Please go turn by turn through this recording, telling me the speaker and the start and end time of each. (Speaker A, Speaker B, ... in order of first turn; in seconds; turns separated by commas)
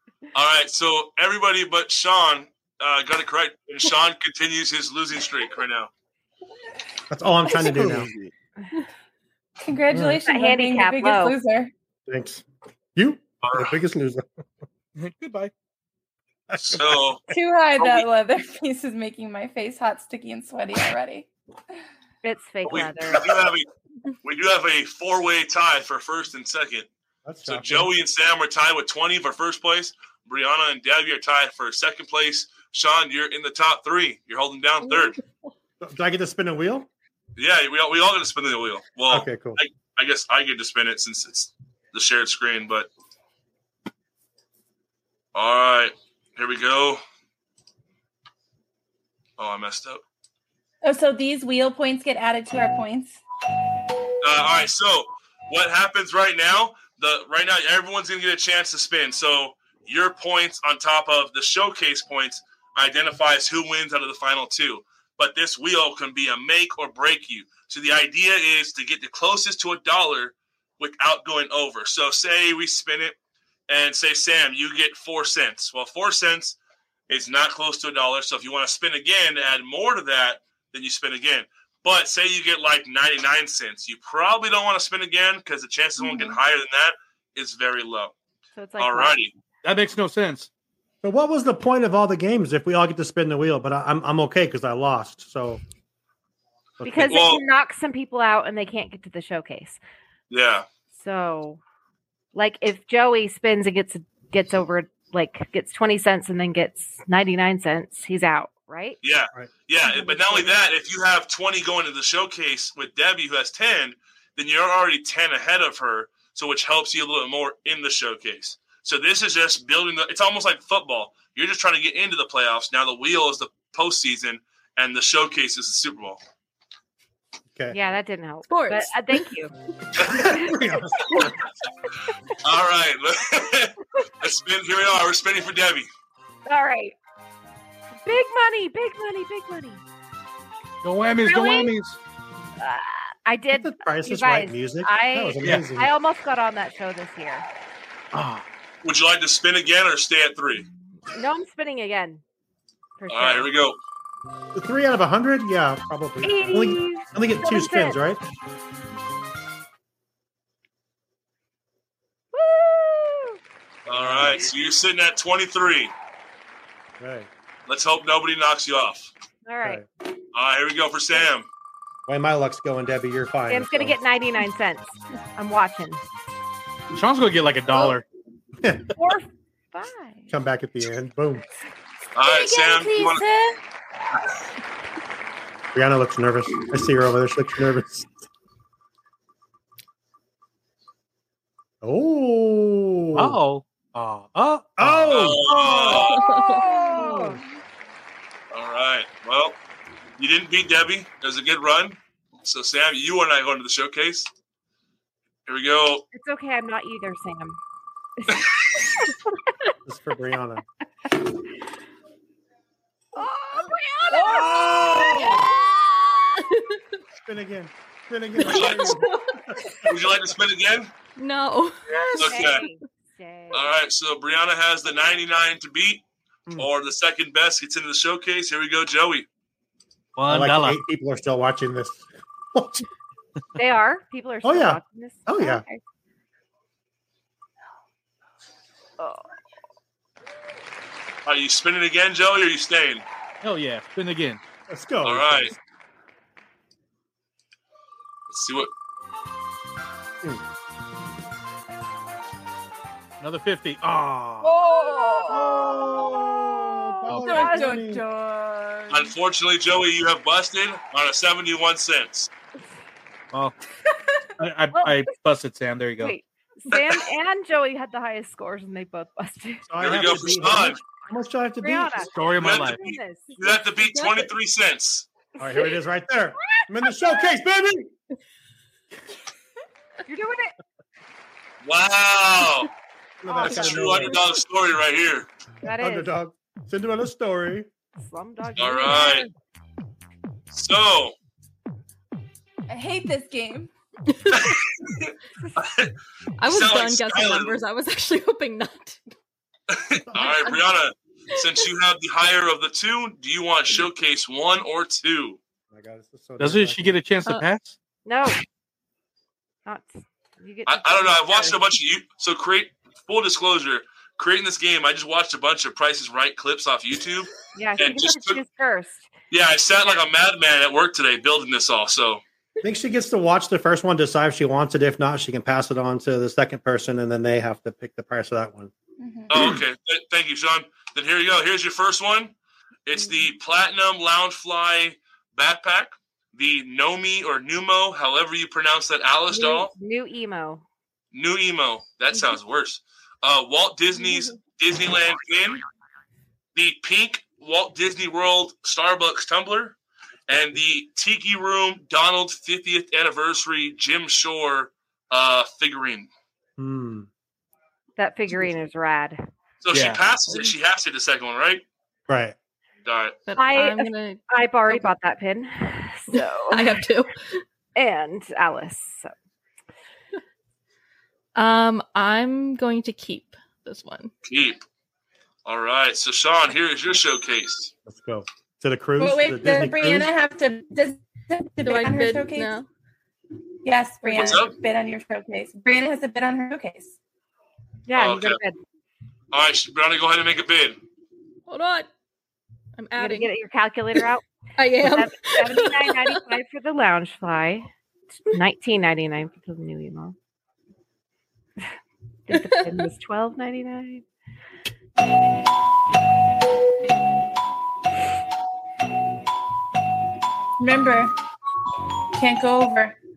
Speaker A: 0.3-5.9, Speaker B: 7.1-8.1, Speaker C: 9.6-11.7, Speaker B: 9.9-10.2, Speaker D: 10.3-11.3, Speaker B: 12.1-14.2, Speaker A: 13.4-13.8, Speaker E: 15.0-15.5, Speaker B: 16.5-17.0, Speaker A: 16.6-17.2, Speaker C: 17.3-21.3, Speaker A: 17.8-18.1, Speaker D: 22.2-23.2, Speaker A: 22.6-23.7, Speaker A: 24.2-26.9, Speaker B: 27.2-27.9, Speaker A: 27.5-35.2, Speaker B: 35.8-36.9, Speaker A: 37.4-42.9, Speaker B: 39.1-39.6, Speaker A: 45.4-47.0, Speaker A: 49.4-50.0, Speaker C: 50.8-53.2, Speaker A: 54.2-73.2, Speaker A: 73.7-76.6, Speaker A: 77.1-88.1, Speaker D: 88.5-89.2, Speaker A: 88.8-89.3, Speaker E: 89.6-90.5, Speaker B: 91.0-95.6, Speaker B: 96.8-97.2, Speaker D: 96.8-99.8, Speaker A: 97.1-97.4, Speaker A: 100.3-100.7, Speaker D: 100.9-101.6, Speaker D: 102.3-109.0, Speaker A: 109.0-126.2, Speaker D: 109.9-110.5, Speaker D: 127.7-129.5, Speaker F: 128.5-129.2, Speaker B: 130.0-131.3, Speaker D: 130.1-130.5, Speaker A: 132.4-135.9, Speaker D: 136.5-136.9, Speaker D: 138.1-139.8, Speaker E: 140.8-142.0, Speaker D: 141.2-141.7, Speaker D: 142.6-147.5, Speaker B: 143.5-145.9, Speaker E: 148.1-148.4, Speaker A: 148.8-150.7, Speaker D: 151.1-152.2, Speaker D: 153.0-153.5, Speaker A: 153.1-153.8, Speaker B: 154.6-158.2, Speaker D: 156.2-158.0, Speaker D: 162.3-163.4, Speaker B: 163.9-164.5, Speaker A: 163.9-165.9, Speaker B: 167.0-167.3, Speaker A: 167.7-169.1, Speaker D: 169.5-169.8, Speaker A: 170.3-171.5, Speaker B: 172.1-174.0, Speaker D: 173.5-176.0, Speaker E: 176.9-178.0, Speaker B: 178.6-178.9, Speaker D: 179.0-180.3, Speaker B: 180.3-181.4, Speaker A: 182.2-183.2, Speaker C: 182.4-182.8, Speaker B: 185.7-188.1, Speaker B: 191.8-193.4, Speaker E: 193.2-195.3, Speaker B: 194.8-196.1, Speaker A: 195.1-196.3, Speaker F: 196.1-196.6, Speaker D: 196.5-197.4, Speaker B: 196.7-197.4, Speaker C: 196.8-197.2, Speaker A: 198.5-199.6, Speaker A: 200.2-204.3, Speaker A: 205.5-206.1, Speaker D: 206.1-207.6, Speaker D: 208.2-208.5, Speaker B: 209.9-210.6, Speaker D: 213.2-214.5, Speaker F: 213.2-216.8, Speaker B: 214.6-215.3, Speaker B: 217.3-219.6, Speaker F: 218.4-219.8, Speaker A: 218.5-219.0, Speaker A: 219.9-220.9, Speaker F: 221.2-222.6, Speaker A: 222.2-222.6, Speaker D: 222.3-223.7, Speaker A: 223.5-226.0, Speaker A: 226.6-229.3, Speaker E: 230.2-230.8, Speaker B: 230.3-232.8, Speaker D: 233.6-235.8, Speaker B: 234.4-235.6, Speaker D: 239.0-239.3, Speaker A: 241.2-243.0, Speaker E: 243.4-244.4, Speaker B: 244.7-245.6, Speaker A: 245.0-245.5, Speaker A: 248.3-248.7, Speaker E: 253.2-254.6, Speaker C: 254.4-255.7, Speaker B: 255.3-258.0, Speaker E: 257.1-257.4, Speaker C: 257.1-259.1, Speaker D: 257.2-257.9, Speaker A: 258.9-262.3, Speaker E: 264.4-266.1, Speaker D: 264.7-265.1, Speaker D: 266.0-269.6, Speaker B: 269.7-272.1, Speaker A: 269.8-270.8, Speaker D: 271.6-274.2, Speaker E: 272.0-272.8, Speaker A: 272.4-275.1, Speaker B: 275.4-277.9, Speaker D: 280.1-280.5, Speaker A: 281.6-282.7, Speaker B: 283.2-284.2, Speaker D: 283.3-284.3, Speaker A: 283.4-285.3, Speaker D: 285.6-286.1, Speaker B: 285.6-287.7, Speaker D: 288.0-289.3, Speaker A: 288.6-289.3, Speaker A: 290.5-291.1, Speaker C: 292.7-293.7, Speaker F: 294.3-294.6, Speaker A: 294.4-295.0, Speaker A: 295.6-295.9, Speaker F: 296.4-299.0, Speaker A: 296.5-297.6, Speaker A: 299.7-305.4, Speaker B: 300.1-300.4, Speaker B: 305.7-307.0, Speaker E: 306.4-307.8, Speaker D: 308.1-308.4, Speaker D: 309.7-311.6, Speaker A: 310.7-318.4, Speaker D: 317.6-319.1, Speaker A: 319.3-322.2, Speaker B: 322.6-328.7, Speaker C: 329.0-329.3, Speaker A: 329.3-332.3, Speaker B: 329.3-329.6, Speaker A: 332.9-339.7, Speaker D: 339.3-340.6, Speaker A: 341.1-345.6, Speaker A: 346.6-349.8, Speaker A: 350.3-356.1, Speaker B: 356.6-357.1, Speaker D: 358.0-359.2, Speaker A: 359.6-361.6, Speaker E: 359.7-360.0, Speaker B: 362.1-362.4, Speaker A: 362.9-363.2, Speaker F: 363.3-364.9, Speaker D: 363.4-366.7, Speaker F: 366.1-367.4, Speaker D: 367.8-369.1, Speaker F: 371.4-374.1, Speaker A: 374.2-374.6, Speaker A: 375.4-377.7, Speaker B: 377.9-380.1, Speaker C: 379.0-382.6, Speaker F: 381.6-382.7, Speaker C: 383.6-386.9, Speaker F: 384.1-384.3, Speaker A: 384.2-384.5, Speaker D: 387.9-388.6, Speaker A: 387.9-388.4, Speaker A: 389.3-390.8, Speaker F: 391.5-391.9, Speaker F: 392.8-393.3, Speaker D: 393.0-394.2, Speaker F: 394.6-396.2, Speaker D: 394.8-397.7, Speaker D: 398.3-400.1, Speaker D: 402.3-404.0, Speaker F: 402.3-402.8, Speaker C: 410.6-411.1, Speaker C: 412.2-412.9